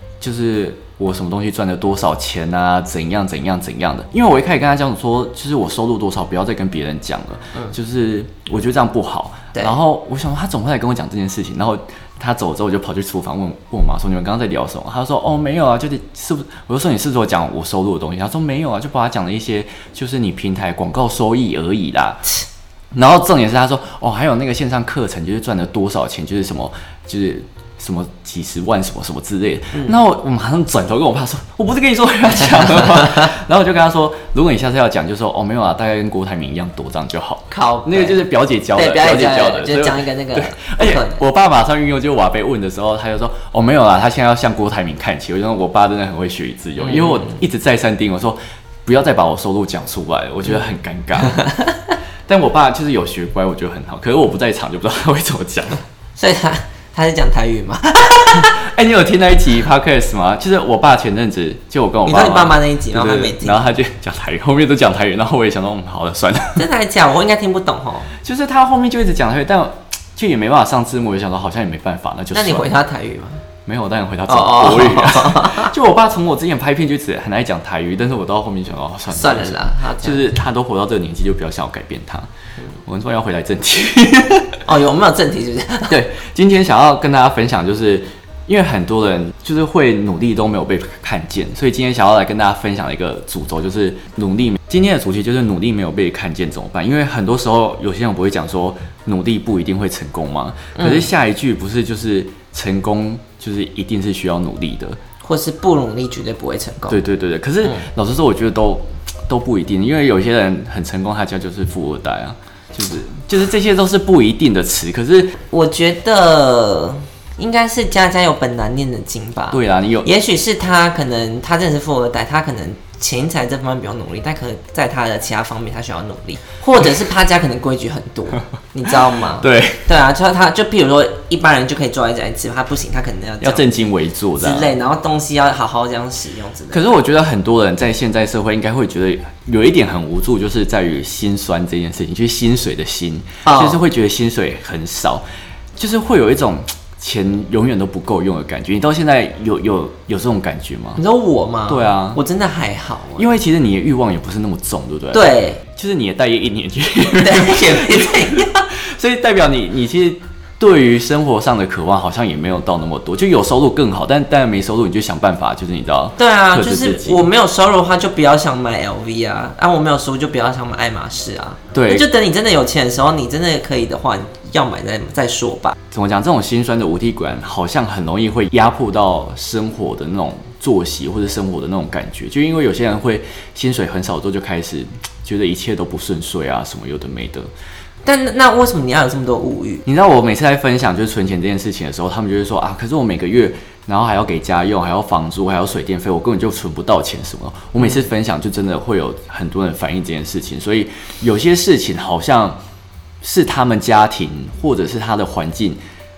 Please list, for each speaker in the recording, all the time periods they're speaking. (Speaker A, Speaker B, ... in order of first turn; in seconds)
Speaker A: 0.2-22.3, 22.9-51.4, 52.3-55.8, 58.4-66.7, 68.2-72.7, 73.7-82.3, 82.8-84.6, 85.9-105.0, 106.9-115.4, 119.5-120.1, 129.4-129.8, 133.4-134.7, 136.7-145.2, 145.8-151.0, 151.7-152.2, 153.2-167.3, 171.7-172.1, 175.9-187.5, 189.8-202.6, 203.2-205.8
Speaker B: 37.5-41.2, 46.8-47.4, 50.5-50.7, 51.3-51.7, 56.1-58.5, 62.0-63.7, 66.5-68.1, 72.3-73.4, 74.3-75.7, 79.1-80.3, 84.7-86.0, 100.8-101.1, 105.2-107.0, 115.5-133.7, 134.4-136.8, 143.4-143.8, 150.9-153.3, 155.1-155.6, 157.2-158.7, 166.2-175.7, 188.0-189.8, 197.8-198.1